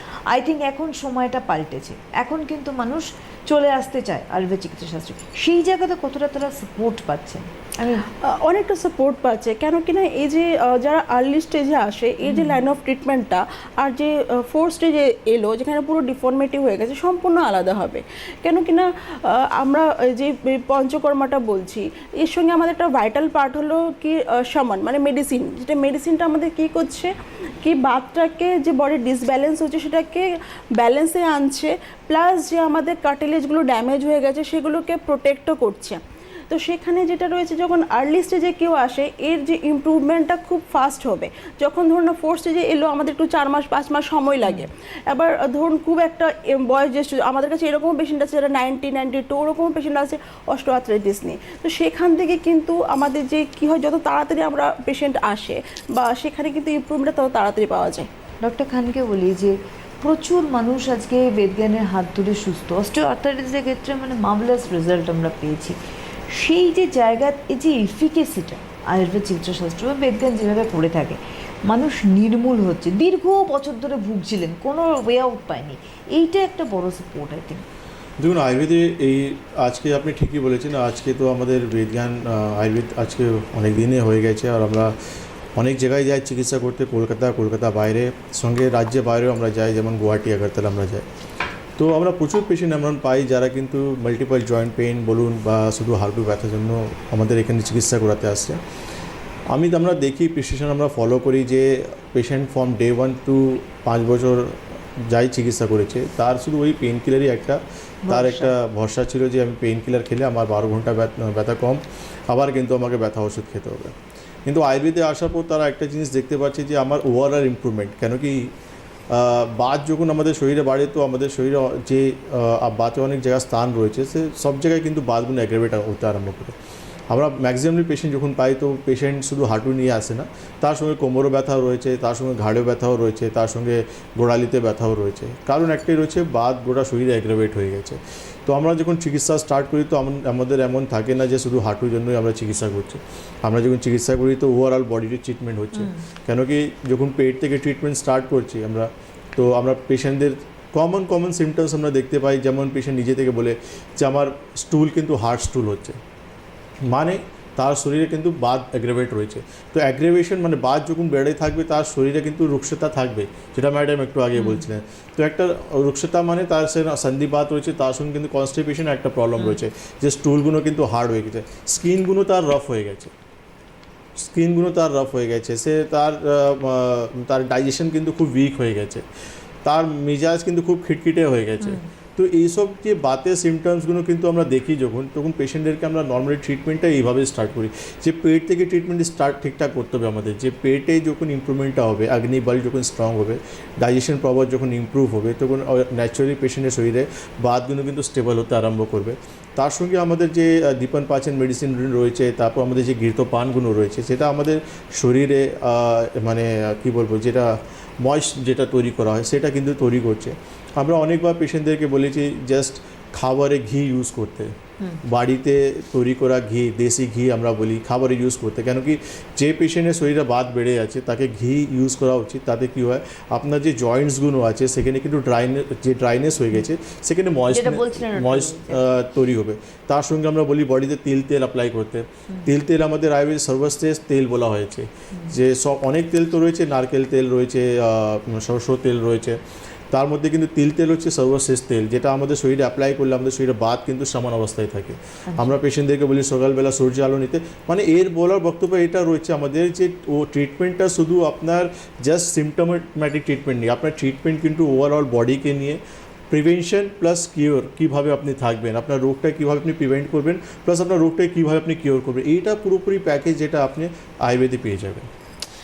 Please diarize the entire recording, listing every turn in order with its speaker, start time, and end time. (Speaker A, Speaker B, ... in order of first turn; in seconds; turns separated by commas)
Speaker A: 0.3-8.0, Speaker B: 8.2-58.1, Speaker A: 12.3-12.6, Speaker A: 58.4-65.8, Speaker A: 66.3-77.6, Speaker C: 78.2-84.9, Speaker C: 85.6-91.1, Speaker C: 91.8-98.6, Speaker C: 99.5-104.5, Speaker C: 105.1-113.9, Speaker A: 108.1-108.5, Speaker C: 114.5-118.5, Speaker C: 119.1-126.5, Speaker C: 127.1-156.0, Speaker C: 156.9-173.1, Speaker A: 164.3-164.7, Speaker C: 174.2-179.1, Speaker C: 179.7-207.5, Speaker C: 208.0-214.5, Speaker C: 215.1-239.4, Speaker A: 227.5-228.8, Speaker C: 239.9-265.1, Speaker A: 245.3-245.6